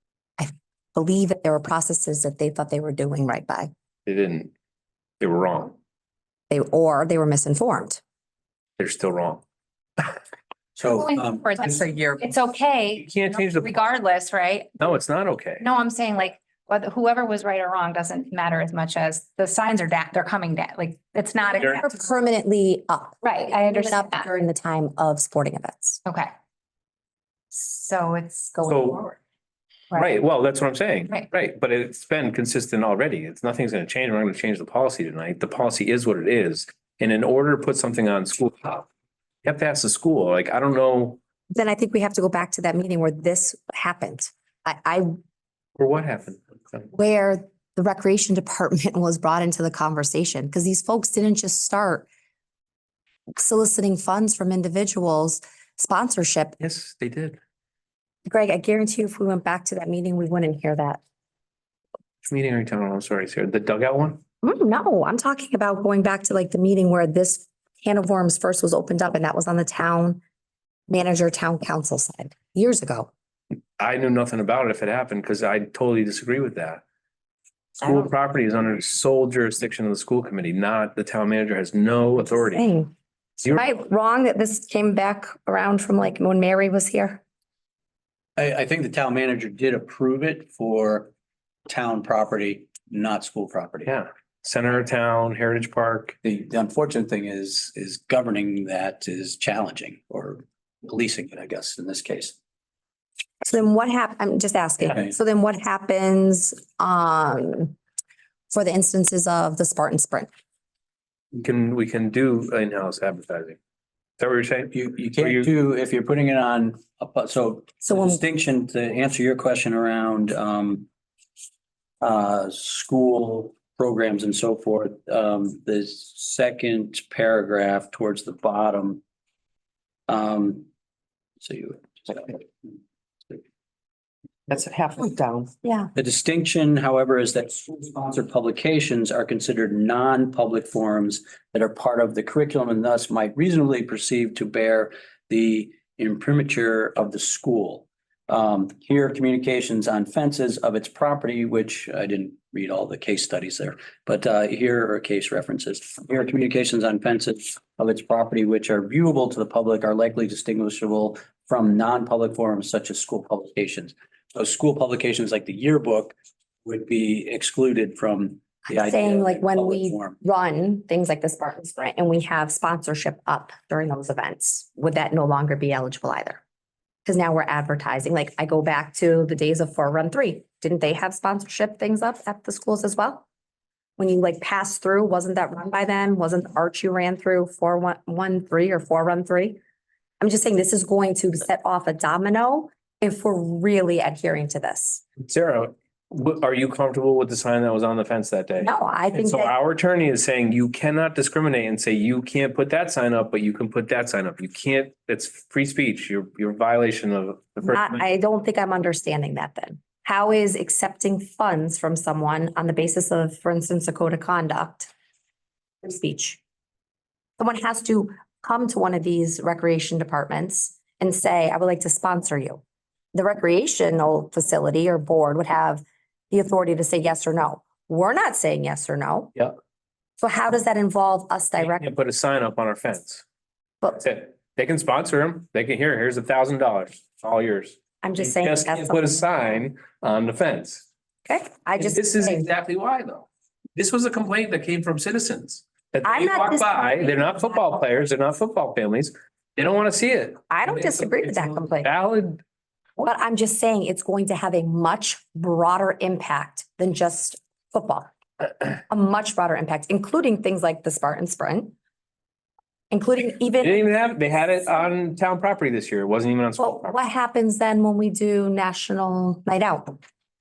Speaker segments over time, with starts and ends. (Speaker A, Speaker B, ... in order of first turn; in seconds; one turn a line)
Speaker A: 0.4-3.7
Speaker B: 4.1-4.5
Speaker B: 5.2-5.8
Speaker A: 6.5-8.0
Speaker B: 8.8-9.4
Speaker C: 10.8-11.9
Speaker D: 10.8-14.9
Speaker B: 13.0-13.7
Speaker B: 14.8-15.7
Speaker D: 15.6-22.0
Speaker A: 21.6-26.0
Speaker D: 23.2-24.3
Speaker D: 26.1-26.3
Speaker D: 27.5-29.2
Speaker B: 28.6-29.0
Speaker B: 29.9-38.9
Speaker B: 39.4-41.2
Speaker A: 41.5-45.1
Speaker B: 45.8-46.9
Speaker A: 46.9-52.1
Speaker A: 53.4-56.6
Speaker B: 56.6-57.4
Speaker A: 58.3-61.0
Speaker B: 62.2-64.2
Speaker A: 64.4-70.2
Speaker A: 70.9-73.1
Speaker B: 73.8-76.8
Speaker B: 77.8-82.7
Speaker A: 82.4-82.9
Speaker A: 83.4-87.2
Speaker C: 88.4-91.1
Speaker C: 91.7-93.9
Speaker B: 93.8-96.2
Speaker C: 96.2-102.4
Speaker A: 103.4-107.8
Speaker A: 108.5-110.3
Speaker B: 111.4-113.6
Speaker B: 114.2-115.5
Speaker C: 114.7-120.9
Speaker A: 117.9-118.2
Speaker C: 122.0-129.0
Speaker C: 130.1-130.7
Speaker C: 131.4-132.8
Speaker A: 135.6-135.9
Speaker C: 135.9-170.2
Speaker A: 168.7-176.4
Speaker A: 177.1-183.2
Speaker A: 184.0-189.6
Speaker A: 190.2-195.1
Speaker B: 195.2-208.0
Speaker A: 198.6-199.6
Speaker A: 207.7-214.9
Speaker A: 215.8-216.4
Speaker A: 217.4-222.6
Speaker A: 223.1-229.4
Speaker A: 230.2-231.9
Speaker B: 231.6-233.2
Speaker B: 233.9-240.9
Speaker A: 238.0-239.2
Speaker A: 241.3-242.5
Speaker B: 241.8-252.4
Speaker A: 246.1-247.7
Speaker A: 250.5-251.9
Speaker A: 253.0-258.1
Speaker A: 258.8-261.8
Speaker A: 262.9-263.8
Speaker B: 263.6-267.0
Speaker A: 266.6-270.0